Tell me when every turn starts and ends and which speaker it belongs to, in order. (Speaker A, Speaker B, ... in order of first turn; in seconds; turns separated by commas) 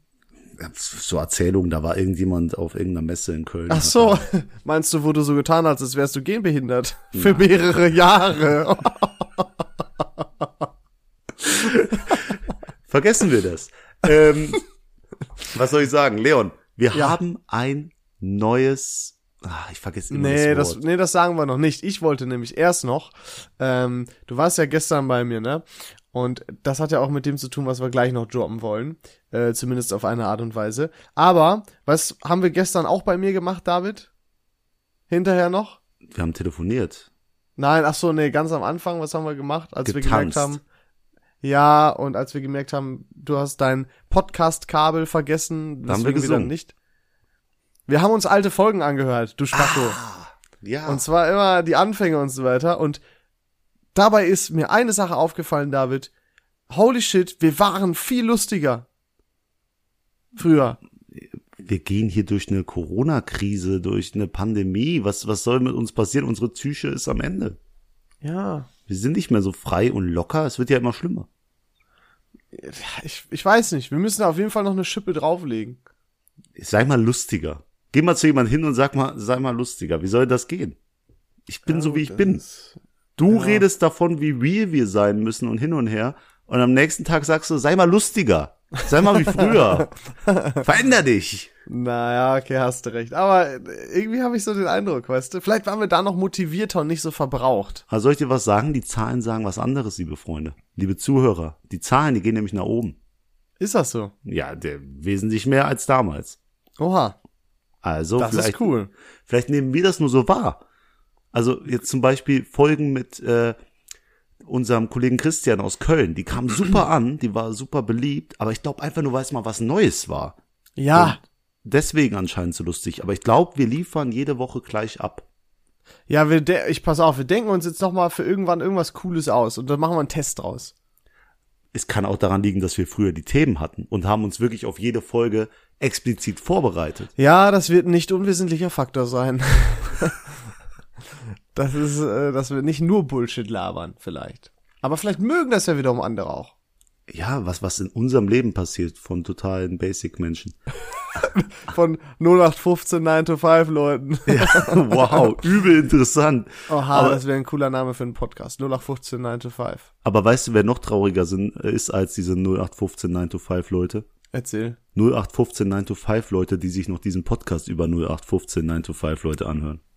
Speaker A: 0.6-4.2, Speaker B: 3.7-9.5, Speaker A: 7.1-7.5, Speaker A: 11.4-14.6, Speaker A: 15.5-20.8, Speaker B: 20.1-34.1, Speaker B: 35.1-35.8, Speaker A: 36.1-37.1, Speaker B: 37.6-40.6, Speaker A: 39.9-40.6, Speaker B: 41.4-46.7, Speaker A: 45.9-46.5, Speaker B: 47.9-50.0, Speaker A: 49.5-51.0, Speaker B: 50.9-53.0, Speaker B: 54.0-56.1, Speaker B: 56.7-58.9, Speaker B: 60.4-60.8, Speaker A: 61.1-67.6, Speaker B: 68.2-68.7, Speaker A: 68.9-71.3, Speaker B: 72.5-75.8, Speaker A: 76.6-80.8, Speaker A: 81.5-82.4, Speaker B: 81.7-82.7, Speaker A: 83.2-89.9, Speaker B: 83.3-83.6, Speaker B: 89.2-90.6, Speaker A: 90.6-91.5, Speaker B: 91.7-97.8, Speaker A: 97.9-103.0, Speaker B: 103.6-104.1, Speaker A: 104.2-106.4, Speaker B: 106.8-107.2, Speaker A: 107.8-108.7, Speaker B: 108.2-108.9, Speaker A: 109.3-110.6, Speaker A: 111.3-113.6, Speaker A: 114.4-120.4, Speaker B: 120.8-121.2, Speaker A: 120.9-125.3, Speaker B: 126.1-130.7, Speaker A: 131.7-137.1, Speaker B: 137.2-140.3, Speaker B: 141.5-146.5, Speaker A: 147.1-150.6, Speaker B: 151.2-155.2, Speaker A: 154.3-157.2, Speaker B: 156.7-159.9, Speaker A: 160.0-164.1, Speaker B: 164.3-164.8, Speaker A: 164.9-169.8